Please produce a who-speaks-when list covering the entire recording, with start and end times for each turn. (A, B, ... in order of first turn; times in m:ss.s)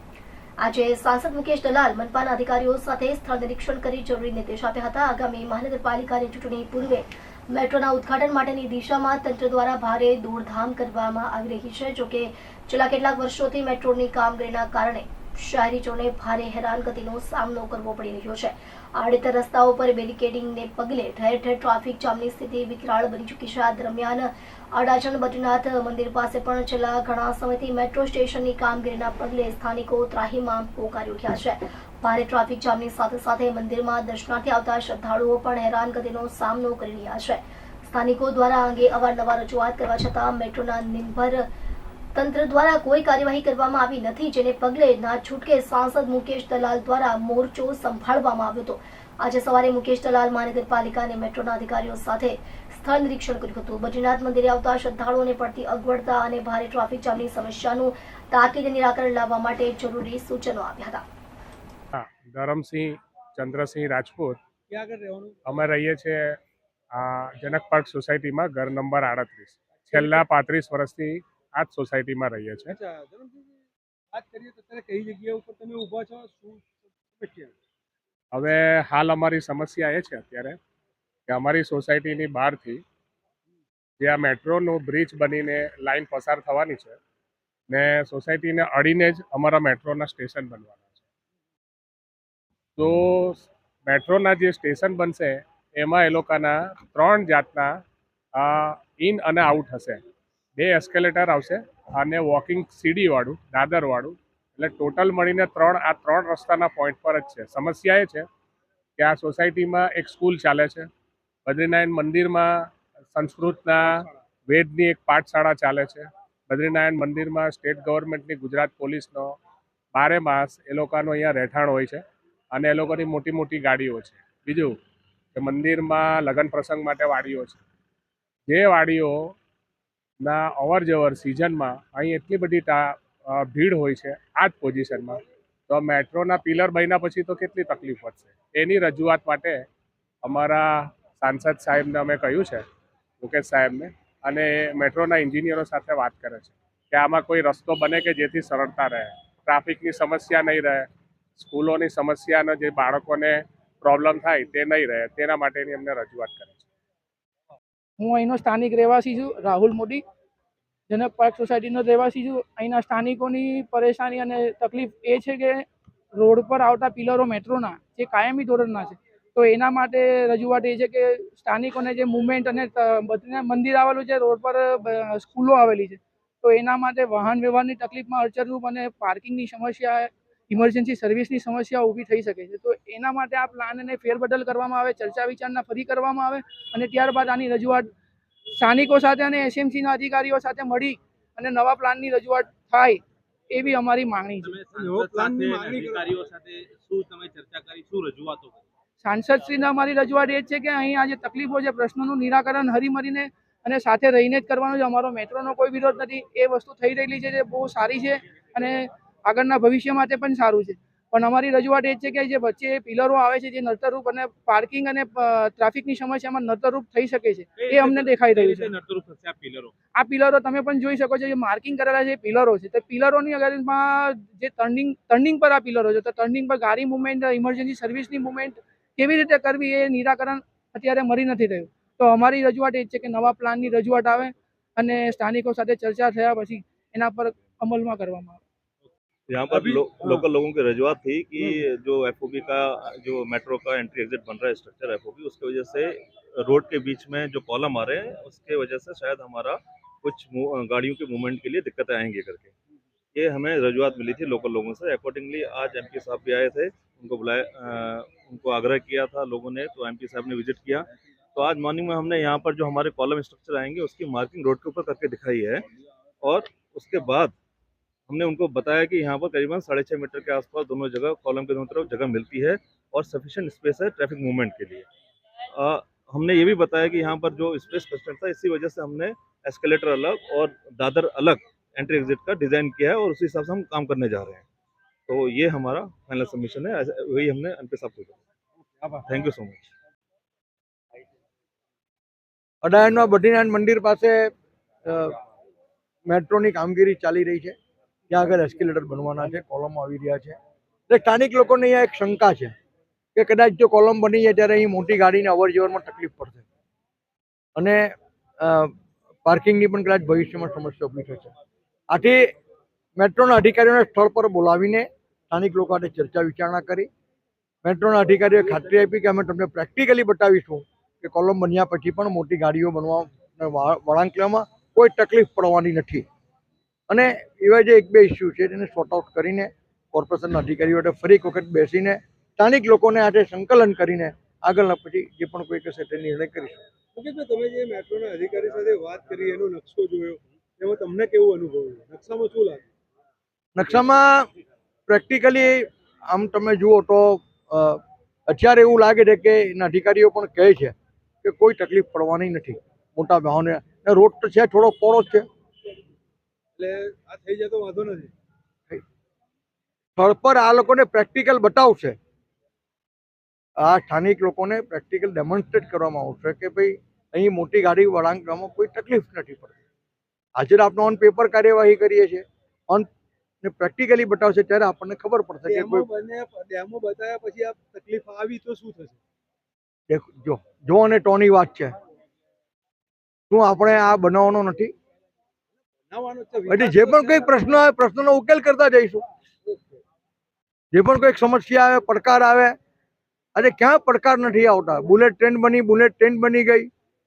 0:00.6-0:41.5 A
0:42.2-1:01.0 A
1:02.0-1:04.4 B
1:05.5-1:06.4 B
1:07.0-1:12.8 B
1:15.3-1:16.6 C
1:18.3-1:20.6 B
1:21.3-1:22.8 B
1:24.0-1:27.0 B
1:27.7-1:30.8 B
1:32.8-1:37.7 B
1:38.4-1:40.0 B
1:40.6-1:48.2 B
1:49.0-1:50.9 B
1:51.5-1:52.5 B
1:53.1-1:53.9 B
1:54.5-1:59.3 B
1:59.9-2:02.0 B
2:02.5-2:04.7 B
2:05.4-2:07.6 B
2:08.5-2:09.3 B
2:10.2-2:19.6 B
2:20.2-2:22.6 B
2:23.2-2:36.6 B
2:38.0-2:40.0 D
2:40.9-2:45.6 D
2:46.2-3:07.9 D
3:08.6-3:14.6 D
3:14.4-3:18.6 E
3:14.8-3:15.9 C
3:19.0-3:38.8 D
3:37.6-3:39.7 E
3:40.0-3:58.4 D
3:59.3-4:12.5 F
4:13.2-4:25.6 F
4:26.2-4:27.4 F
4:28.1-4:34.9 F
4:35.5-4:44.4 F
4:45.1-4:48.2 F
4:49.1-4:49.7 F
4:52.6-4:54.3 G
4:54.8-4:55.1 G
4:56.1-4:57.6 G
4:58.1-5:00.4 G
5:00.9-5:02.5 G
5:03.2-5:06.4 G
5:07.6-5:07.9 G
5:08.4-5:08.7 G
5:09.2-5:11.3 G
5:11.9-5:12.3 G
5:13.0-5:16.9 G
5:17.6-5:26.0 G
5:26.9-5:36.6 G
5:38.4-5:39.3 C
5:39.9-5:40.2 C
5:41.6-5:42.6 C
5:43.6-5:44.3 G
5:44.9-5:55.2 G
5:56.6-5:58.1 C
6:00.0-6:02.0 G
6:03.6-6:09.5 G
6:10.4-6:12.9 G
6:13.4-6:15.9 G
6:19.9-6:21.7 G
6:23.3-6:24.7 G
6:26.5-6:29.0 G
6:26.6-6:27.0 C
6:30.7-6:32.5 G
6:33.4-6:36.7 G